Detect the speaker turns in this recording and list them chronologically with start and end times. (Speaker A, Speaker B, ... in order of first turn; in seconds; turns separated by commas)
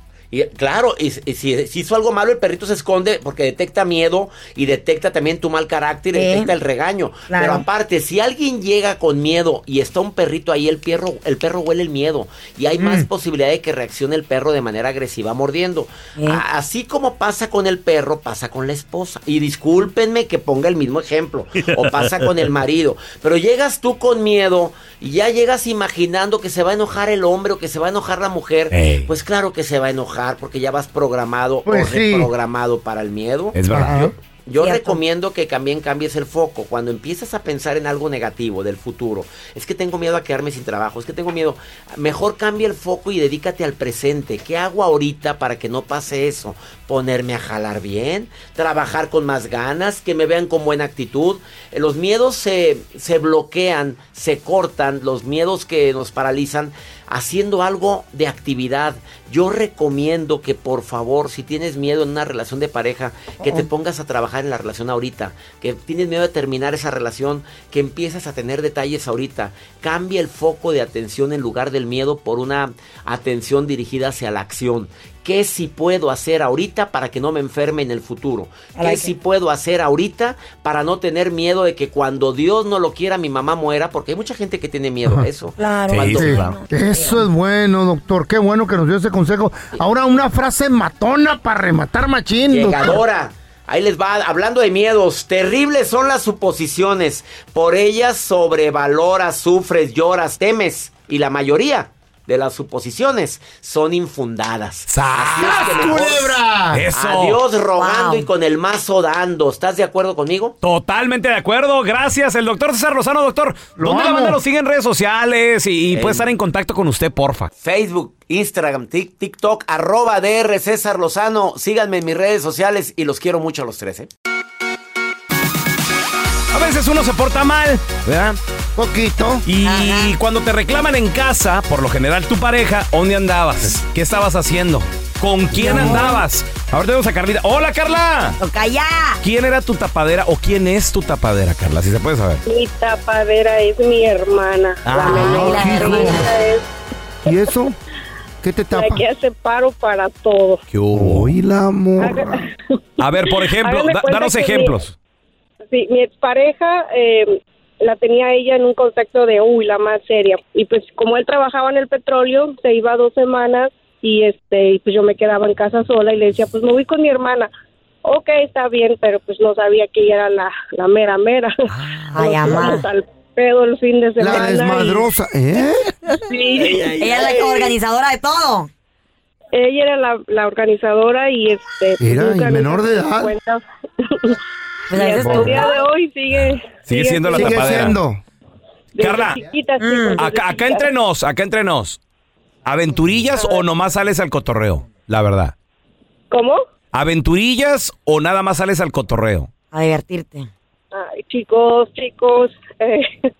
Speaker A: 0.3-33.6, Speaker B: 6.1-6.5, Speaker B: 7.3-7.6, Speaker B: 16.2-16.4, Speaker C: 28.7-29.1, Speaker D: 31.6-32.3, Speaker C: 33.5-34.1, Speaker D: 33.7-34.1, Speaker A: 34.5-86.4, Speaker B: 34.6-35.0, Speaker B: 63.4-63.6, Speaker B: 78.8-79.1, Speaker B: 85.6-87.2, Speaker C: 85.9-86.5, Speaker D: 86.2-93.0, Speaker A: 92.5-106.4, Speaker C: 104.9-106.0, Speaker D: 105.3-106.8, Speaker C: 106.7-107.4, Speaker A: 106.9-110.5, Speaker B: 107.8-108.3, Speaker C: 110.6-117.5, Speaker D: 113.8-114.4, Speaker A: 115.9-116.3, Speaker A: 117.6-124.1, Speaker C: 126.5-128.4, Speaker D: 128.8-129.4, Speaker C: 129.4-138.4, Speaker B: 129.6-130.1, Speaker D: 135.6-136.1, Speaker B: 135.6-136.1, Speaker B: 138.4-139.2, Speaker C: 139.2-142.4, Speaker E: 142.4-146.6, Speaker C: 144.8-145.3, Speaker B: 145.0-146.2, Speaker D: 145.1-146.2, Speaker D: 147.2-147.7, Speaker D: 148.4-149.0, Speaker E: 148.7-150.6, Speaker C: 150.7-151.3, Speaker D: 150.9-152.4, Speaker E: 152.0-152.3, Speaker C: 153.0-154.9, Speaker E: 153.6-154.7, Speaker E: 155.7-167.5, Speaker E: 168.0-171.5, Speaker B: 172.1-172.8, Speaker E: 172.1-175.0, Speaker D: 174.2-175.9, Speaker E: 176.3-177.3, Speaker B: 177.0-178.7, Speaker E: 179.5-184.4, Speaker D: 182.0-183.3, Speaker B: 184.9-185.7, Speaker E: 184.9-187.9, Speaker D: 185.2-185.7, Speaker C: 186.9-188.0, Speaker D: 187.3-188.2, Speaker E: 188.9-190.9, Speaker C: 189.0-189.4, Speaker B: 189.8-190.2, Speaker C: 190.2-192.0, Speaker C: 192.7-195.5, Speaker E: 196.3-196.6, Speaker C: 196.9-199.5, Speaker B: 199.7-200.5, Speaker E: 200.9-203.1